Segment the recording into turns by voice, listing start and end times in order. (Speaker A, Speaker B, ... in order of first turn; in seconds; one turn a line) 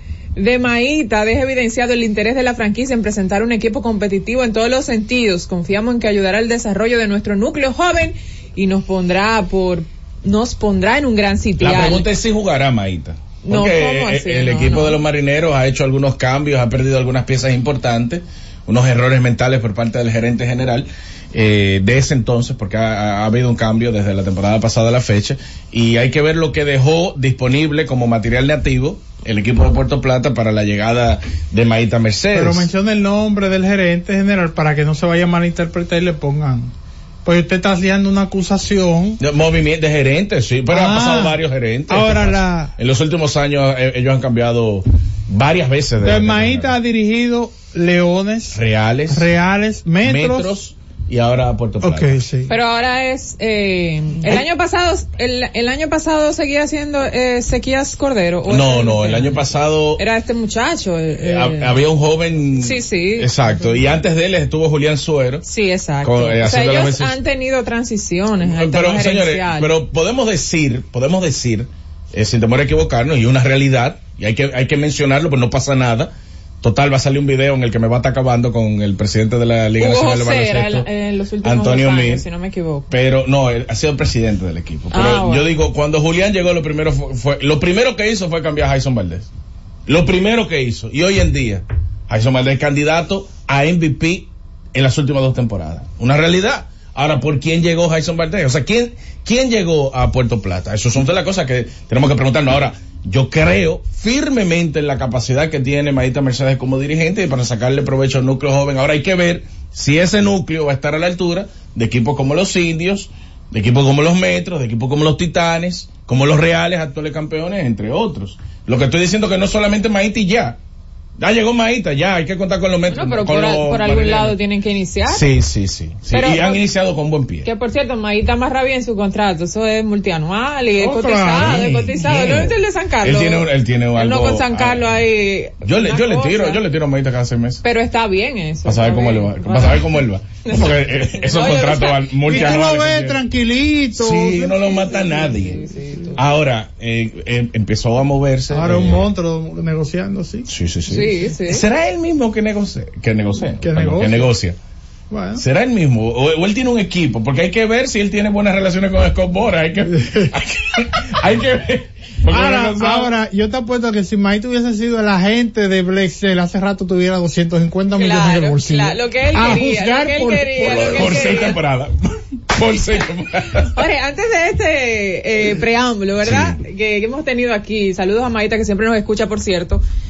Speaker A: 0.4-12.1
Speaker B: 11.6-32.7
Speaker A: 13.5-15.0
Speaker C: 32.3-36.7
Speaker C: 37.2-39.2
Speaker B: 39.2-46.8
Speaker C: 40.7-42.7
Speaker C: 46.0-50.6
Speaker B: 48.5-49.3
Speaker B: 50.0-52.2
Speaker C: 51.8-52.5
Speaker A: 52.5-61.9
Speaker B: 58.5-60.0
Speaker B: 61.2-65.5
Speaker A: 62.5-63.3
Speaker A: 65.4-69.7
Speaker B: 66.0-67.2
Speaker B: 68.4-80.9
Speaker A: 79.8-82.9
Speaker B: 81.4-82.3
Speaker B: 82.9-89.3
Speaker A: 84.9-85.6
Speaker B: 89.9-120.6
Speaker B: 121.2-124.4
Speaker A: 122.9-125.3
Speaker B: 125.1-127.5
Speaker A: 126.1-126.7
Speaker A: 127.4-136.6
Speaker C: 130.8-131.9
Speaker B: 131.3-135.0
Speaker B: 135.6-137.6
Speaker A: 137.6-142.9
Speaker B: 138.7-143.2
Speaker C: 142.3-144.7
Speaker B: 143.9-149.1
Speaker A: 144.7-146.2
Speaker C: 148.5-150.5
Speaker B: 150.5-154.6
Speaker A: 150.9-151.7
Speaker C: 153.6-154.3
Speaker C: 155.1-155.4
Speaker B: 155.4-163.1
Speaker C: 160.0-160.3
Speaker C: 162.3-171.2
Speaker A: 168.0-171.6
Speaker B: 170.6-173.7
Speaker A: 173.6-179.8
Speaker B: 176.2-176.6